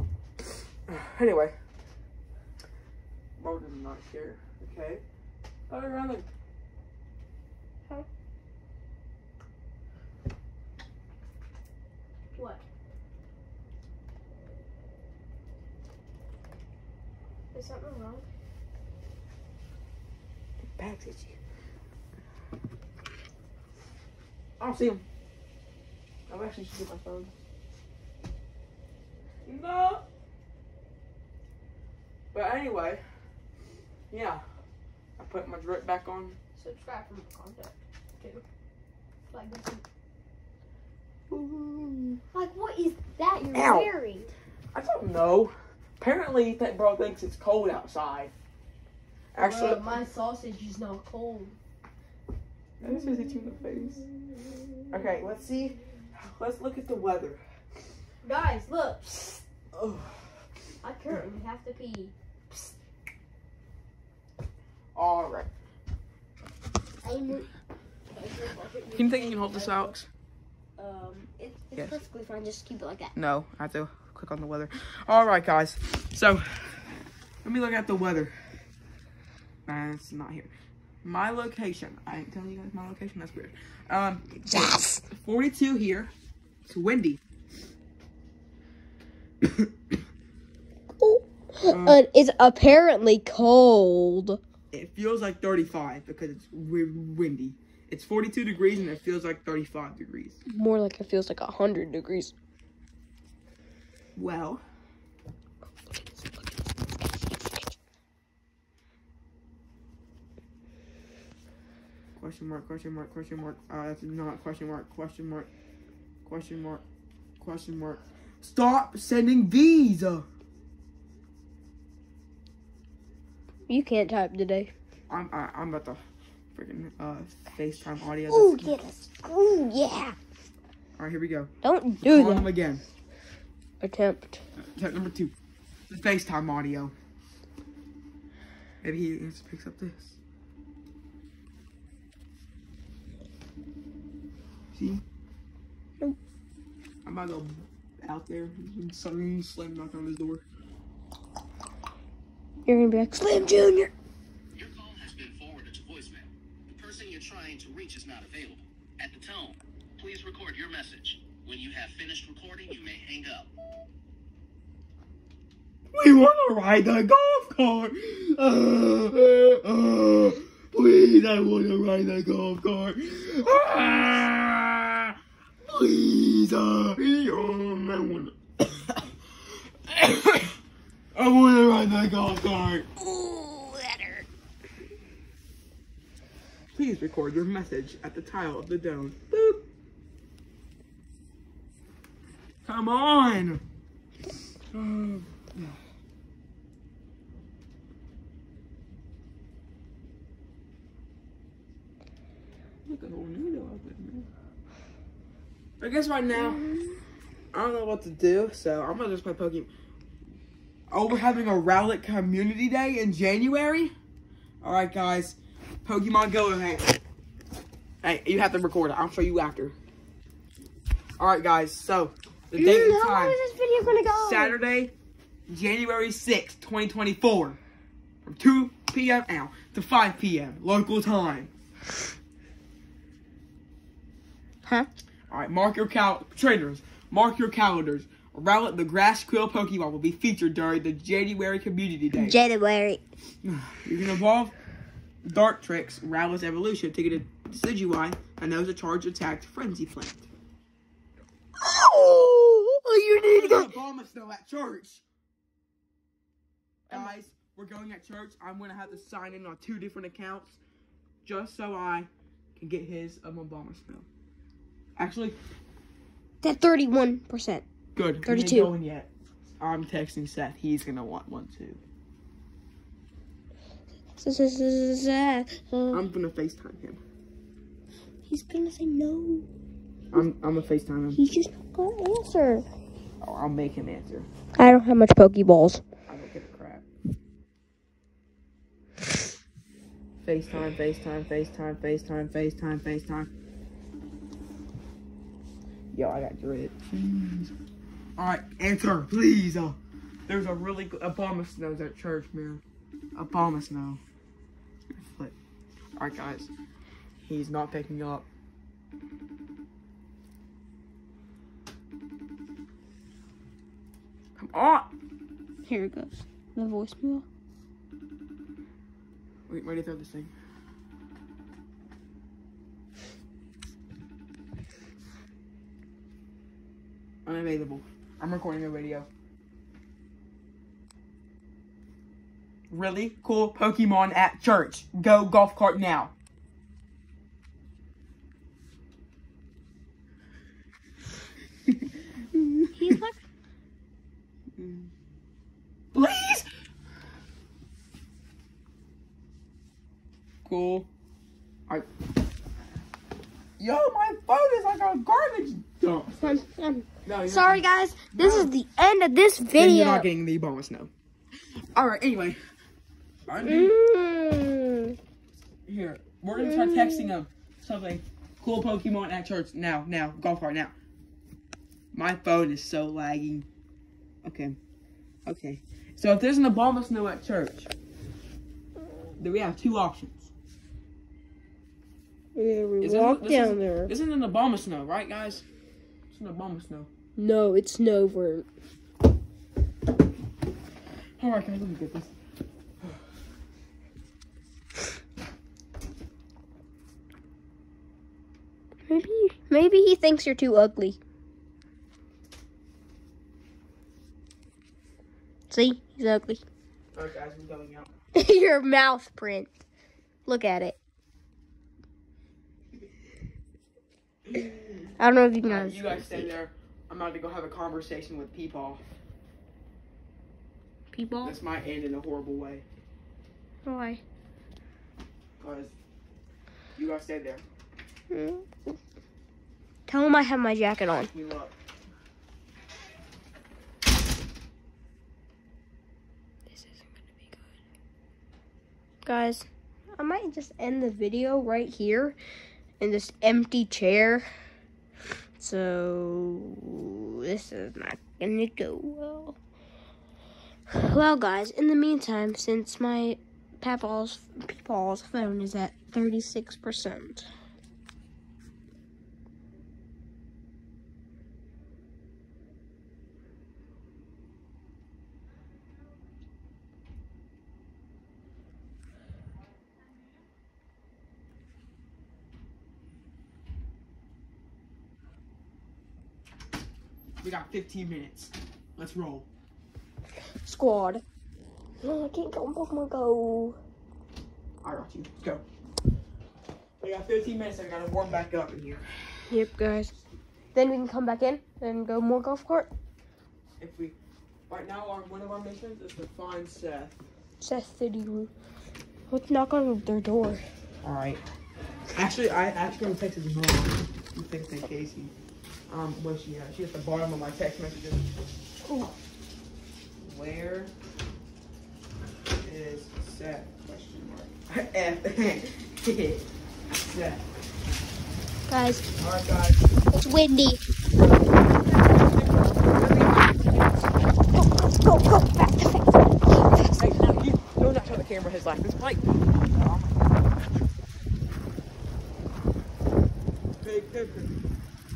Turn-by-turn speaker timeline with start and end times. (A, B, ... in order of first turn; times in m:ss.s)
0:00.9-0:01.6 A
0:03.4-0:05.0 A
0:05.7-0:06.3 A
0:12.3-0:12.6 B
0:17.5-0:18.3 B
0:20.8-0:21.4 A
0:24.6-0:25.0 A
0:26.3-0:27.3 A
0:29.4-0:30.0 A
0:32.3-0:33.0 A
0:34.1-0:34.4 A
0:35.2-0:36.4 A
0:36.6-0:38.4 B
0:39.3-0:39.8 B
0:41.3-0:42.2 A
0:42.3-0:44.3 B
0:43.5-0:43.9 A
0:44.7-0:48.3 A
0:49.3-0:49.9 A
0:49.4-0:51.6 B
0:52.8-0:54.0 A
0:52.8-0:54.2 B
0:54.9-0:57.4 A
0:58.2-0:59.4 B
0:59.7-1:00.2 A
1:00.8-1:02.8 B
1:05.0-1:05.5 A
1:07.0-1:07.5 B
1:08.1-1:09.9 B
1:09.0-1:10.1 A
1:10.8-1:13.1 B
1:11.8-1:12.0 A
1:13.2-1:16.7 A
1:17.4-1:18.4 A
1:19.7-1:20.5 A
1:21.0-1:26.1 A
1:24.5-1:25.0 B
1:26.7-1:27.2 A
1:29.4-1:29.7 A
1:31.0-1:34.4 B
1:31.7-1:32.0 A
1:34.7-1:40.4 A
1:40.5-1:42.3 B
1:44.2-1:44.6 A
1:45.9-1:47.7 B
1:52.2-1:55.5 A
1:56.2-1:56.8 A
1:57.4-2:00.3 A
2:03.7-2:04.7 B
2:05.1-2:06.0 A
2:06.5-2:08.8 A
2:08.3-2:10.2 B
2:11.0-2:11.5 A
2:11.6-2:12.5 B
2:12.0-2:12.8 A
2:13.8-2:14.4 B
2:14.6-2:15.3 A
2:15.9-2:16.9 A
2:18.8-2:20.2 A
2:24.7-2:25.0 A
2:27.0-2:30.4 A
2:32.7-2:33.9 B
2:34.5-2:43.5 C
2:45.9-2:59.1 A
2:59.9-3:00.6 A
3:01.2-3:04.2 A
3:06.7-3:09.6 A
3:12.6-3:13.6 A
3:14.7-3:15.8 A
3:22.9-3:24.3 A
3:25.8-3:26.6 A
3:26.4-3:27.0 B
3:27.5-3:29.7 A
3:30.9-3:33.9 A
3:34.6-3:37.0 A
3:38.0-3:39.8 A
3:41.2-3:43.4 A
3:42.6-3:44.6 B
3:44.1-3:44.9 A
3:45.5-3:47.6 A
3:48.2-3:51.5 A
3:54.6-3:54.9 B
3:55.3-4:02.4 A
4:02.2-4:03.0 B
4:03.4-4:04.5 A
4:05.2-4:10.3 A
4:11.6-4:13.8 B
4:13.3-4:15.0 A
4:16.9-4:20.6 A
4:21.2-4:24.1 A
4:25.0-4:25.4 A
4:26.4-4:27.6 B
4:28.0-4:31.8 A
4:28.2-4:28.7 B
4:34.2-4:36.0 B
4:35.9-4:37.0 A
4:38.3-4:39.5 B
4:40.1-4:41.2 A
4:41.2-4:42.6 B
4:43.2-4:44.3 A
4:44.6-4:45.8 B
4:46.1-4:46.9 A
4:50.2-4:53.3 A
4:55.9-4:57.5 A
4:58.2-5:02.6 A
5:03.2-5:04.0 A
5:05.0-5:05.3 A
5:06.0-5:06.5 A
5:07.2-5:08.3 A
5:14.4-5:14.9 A
5:15.7-5:17.2 B
5:19.5-5:20.3 A
5:27.3-5:29.1 A
5:32.7-5:36.1 A
5:42.7-5:43.2 B
5:44.6-5:44.9 A
5:45.9-5:46.5 A
5:50.4-5:50.9 A
5:53.6-5:56.2 A
5:56.2-6:00.1 B
5:57.0-5:58.5 A
5:59.6-6:00.9 A
6:01.8-6:02.4 A
6:03.3-6:03.7 A
6:03.4-6:05.0 B
6:05.7-6:10.7 A
6:06.4-6:07.1 B
6:11.9-6:13.5 A
6:14.2-6:14.6 A
6:15.3-6:17.7 A
6:19.2-6:20.3 A
6:22.4-6:23.9 B
6:22.8-6:25.4 A
6:26.1-6:26.9 A
6:27.2-6:28.5 B
6:31.2-6:32.1 A
6:38.9-6:41.0 B
6:45.5-6:46.4 B
6:47.0-6:47.9 A
6:48.2-6:49.5 B
6:50.3-6:50.8 B
6:54.3-6:54.9 A
6:55.0-6:56.3 B
6:55.4-6:58.8 A
7:00.9-7:01.4 B
7:01.2-7:02.6 A
7:03.6-7:04.0 B
7:05.4-7:05.7 A
7:06.8-7:07.4 A
7:08.1-7:08.5 B
7:09.9-7:11.1 B
7:11.0-7:11.6 A
7:16.5-7:17.4 B
7:19.0-7:22.2 B
7:22.8-7:24.3 B
7:25.4-7:29.4 B
7:30.7-7:37.3 B
7:57.2-7:59.3 A
8:00.4-8:01.0 B
8:01.8-8:03.6 B
8:04.6-8:05.4 A
8:06.8-8:08.8 A
8:09.3-8:09.9 B
8:10.5-8:12.7 B
8:13.6-8:14.0 A
8:14.5-8:17.0 A
8:17.4-8:18.3 B
8:19.1-8:20.4 B
8:20.8-8:21.2 A
8:22.0-8:25.1 A
8:25.7-8:28.1 A
8:28.6-8:28.9 B
8:30.0-8:30.7 A
8:32.3-8:36.3 A
8:36.9-8:37.2 A
8:38.5-8:38.9 B
8:39.0-8:39.6 A
8:39.9-8:40.6 B
8:41.0-8:43.9 A
8:44.4-8:46.8 B
8:46.8-8:50.0 A
8:53.6-8:54.4 A